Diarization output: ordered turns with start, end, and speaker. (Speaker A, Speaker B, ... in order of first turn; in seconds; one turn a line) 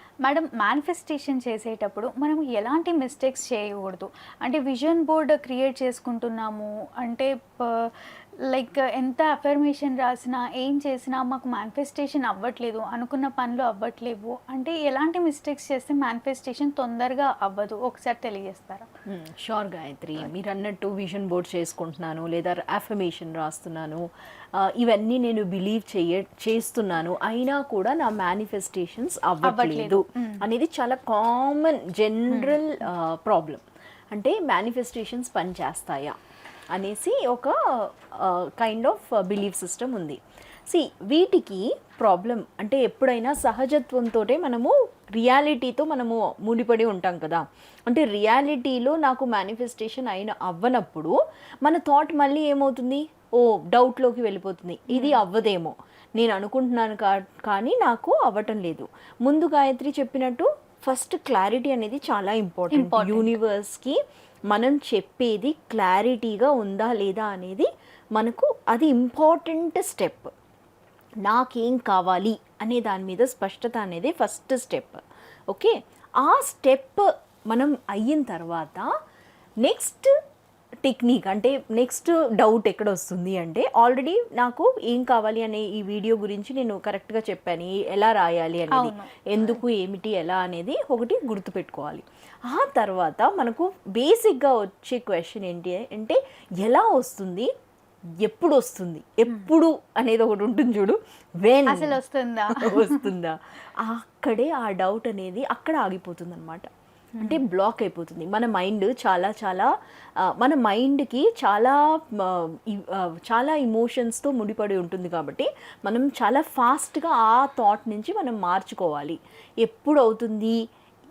Speaker A: 0.2-18.9
Speaker B: 19.1-33.6
Speaker A: 29.4-30.4
Speaker A: 32.3-32.6
Speaker B: 34.1-36.1
Speaker B: 36.7-37.5
Speaker B: 38.1-64.0
Speaker A: 54.9-55.2
Speaker A: 62.7-63.3
Speaker B: 64.5-70.3
Speaker B: 71.2-78.9
Speaker B: 79.6-80.1
Speaker B: 80.8-97.5
Speaker A: 88.7-89.5
Speaker B: 98.2-102.0
Speaker A: 101.7-103.1
Speaker B: 102.5-106.7
Speaker A: 107.2-107.4
Speaker B: 107.2-120.6